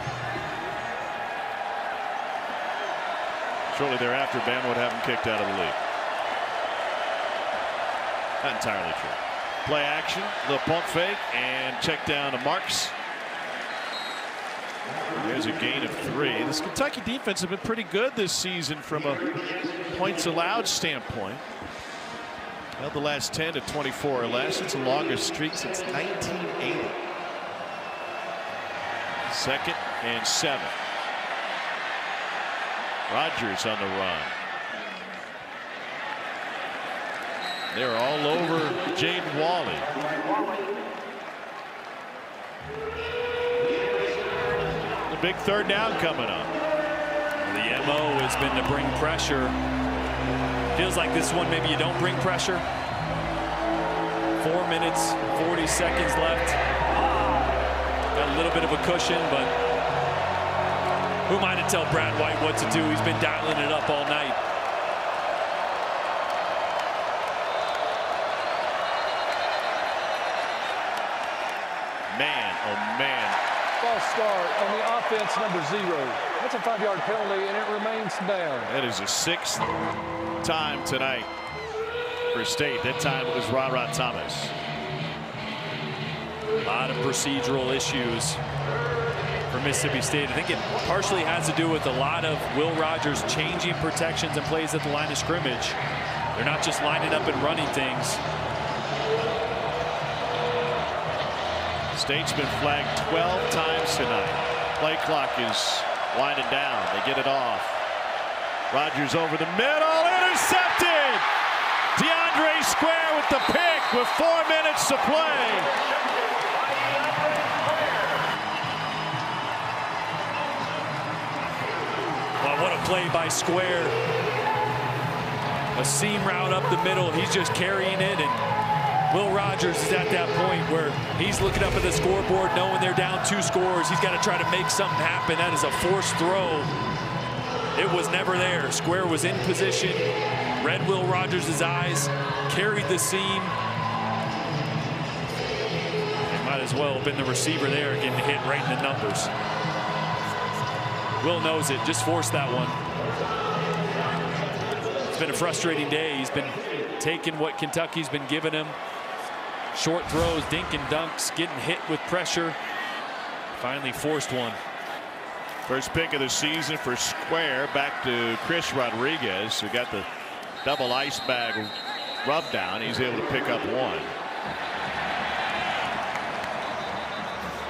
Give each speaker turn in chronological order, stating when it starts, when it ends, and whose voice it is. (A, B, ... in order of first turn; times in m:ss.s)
0:03.7-0:05.8 A
0:08.4-0:12.9 A
0:15.2-0:21.4 A
0:22.8-0:27.0 A
0:29.2-0:30.8 A
0:33.1-0:34.3 A
0:37.7-0:39.9 A
0:45.1-0:46.5 A
0:47.4-0:49.5 B
0:50.7-0:52.6 B
0:54.4-0:56.6 B
0:58.1-0:59.5 B
1:01.3-1:04.4 B
1:12.1-1:13.4 A
1:13.8-1:18.7 C
1:18.6-1:19.7 A
1:20.4-1:21.3 A
1:22.3-1:24.5 A
1:26.6-1:28.4 B
1:29.5-1:35.8 B
1:36.3-1:38.2 B
1:41.9-1:47.8 A
1:48.7-1:51.3 A
1:51.9-1:55.7 A
2:02.4-2:04.0 B
2:05.7-2:08.4 B
2:09.1-2:16.7 B
2:17.7-2:20.1 B
2:20.6-2:23.6 B
2:26.3-2:29.3 B
2:31.2-2:32.8 B
2:35.1-2:38.8 B
2:39.7-2:42.6 B
2:43.6-2:44.6 B
2:45.7-2:50.1 A
2:50.6-2:54.1 A